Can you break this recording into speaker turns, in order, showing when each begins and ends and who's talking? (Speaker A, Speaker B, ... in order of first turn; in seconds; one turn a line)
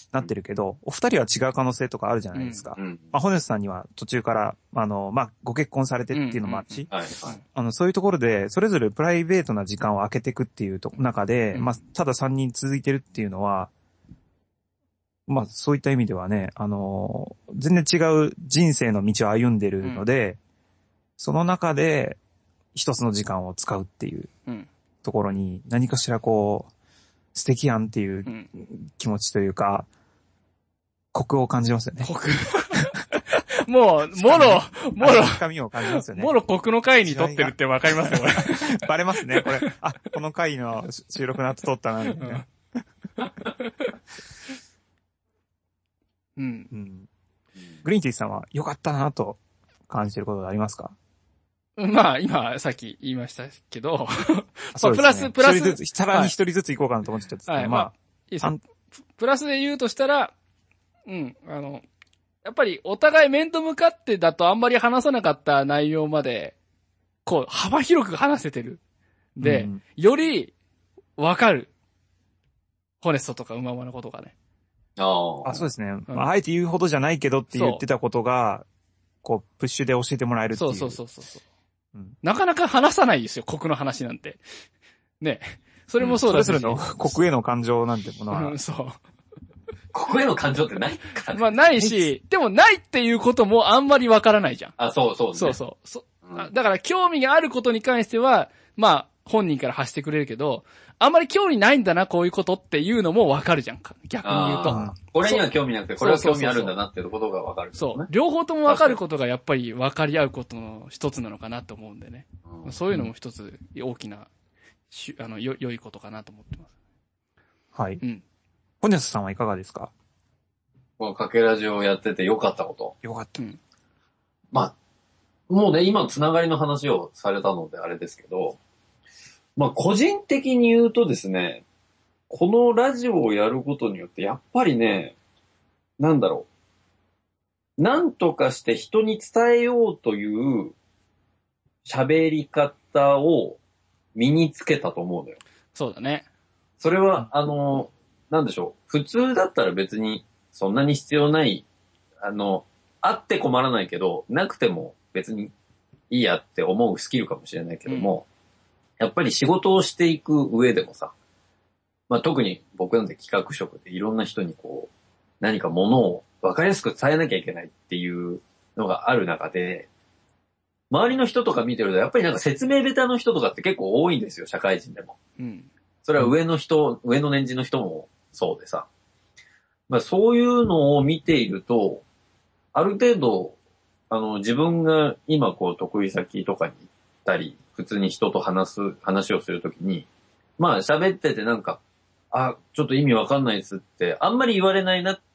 Speaker A: 0.1-6.9
Speaker B: 2.3-2.6
Speaker C: 2.8-3.1
Speaker B: 6.1-7.4
Speaker C: 6.9-7.4
Speaker A: 7.5-13.7
Speaker A: 15.3-20.4
Speaker A: 21.2-22.2
Speaker A: 22.7-24.3
Speaker A: 25.0-26.7
Speaker A: 27.4-29.9
Speaker A: 31.1-32.1
Speaker B: 32.0-39.7
Speaker A: 32.7-33.0
Speaker A: 34.1-36.4
Speaker A: 37.0-42.5
Speaker B: 42.1-42.5
Speaker B: 43.2-43.9
Speaker B: 46.4-46.7
Speaker A: 46.7-47.1
Speaker A: 47.8-51.0
Speaker B: 51.8-56.3
Speaker A: 54.8-58.6
Speaker B: 57.5-58.6
Speaker B: 59.2-60.3
Speaker B: 61.1-61.9
Speaker B: 62.4-66.5
Speaker B: 67.2-68.8
Speaker B: 69.4-70.5
Speaker A: 69.4-69.8
Speaker B: 71.2-71.7
Speaker B: 73.0-74.3
Speaker C: 75.0-75.6
Speaker A: 75.5-78.7
Speaker B: 77.5-77.8
Speaker A: 79.2-81.0
Speaker B: 80.5-81.4
Speaker B: 82.2-84.4
Speaker B: 85.2-87.0
Speaker A: 86.2-88.6
Speaker B: 88.3-89.0
Speaker C: 89.9-91.6
Speaker B: 91.3-94.8
Speaker A: 91.8-92.1
Speaker C: 94.8-95.6
Speaker B: 95.3-105.5
Speaker C: 104.2-108.1
Speaker A: 104.7-105.0
Speaker B: 106.0-106.8
Speaker B: 107.8-114.3
Speaker C: 108.7-109.0
Speaker C: 112.5-112.8
Speaker B: 114.9-116.7
Speaker A: 117.8-118.0
Speaker A: 118.8-119.9
Speaker C: 121.0-123.0
Speaker A: 123.0-123.4
Speaker C: 125.5-128.6
Speaker C: 129.6-131.6
Speaker C: 132.3-135.2
Speaker C: 136.0-136.5
Speaker C: 137.8-140.8
Speaker C: 141.8-143.6
Speaker C: 144.2-145.4
Speaker B: 145.7-146.3
Speaker C: 146.8-151.7
Speaker C: 152.2-155.5
Speaker C: 156.1-158.2
Speaker B: 157.9-158.1
Speaker C: 159.0-161.1
Speaker C: 162.1-164.9
Speaker C: 165.4-169.9
Speaker C: 170.9-175.2
Speaker B: 175.4-175.7
Speaker C: 176.1-178.9
Speaker C: 179.9-182.0
Speaker C: 182.7-183.6
Speaker C: 184.1-190.1
Speaker C: 190.6-191.8
Speaker C: 192.3-195.2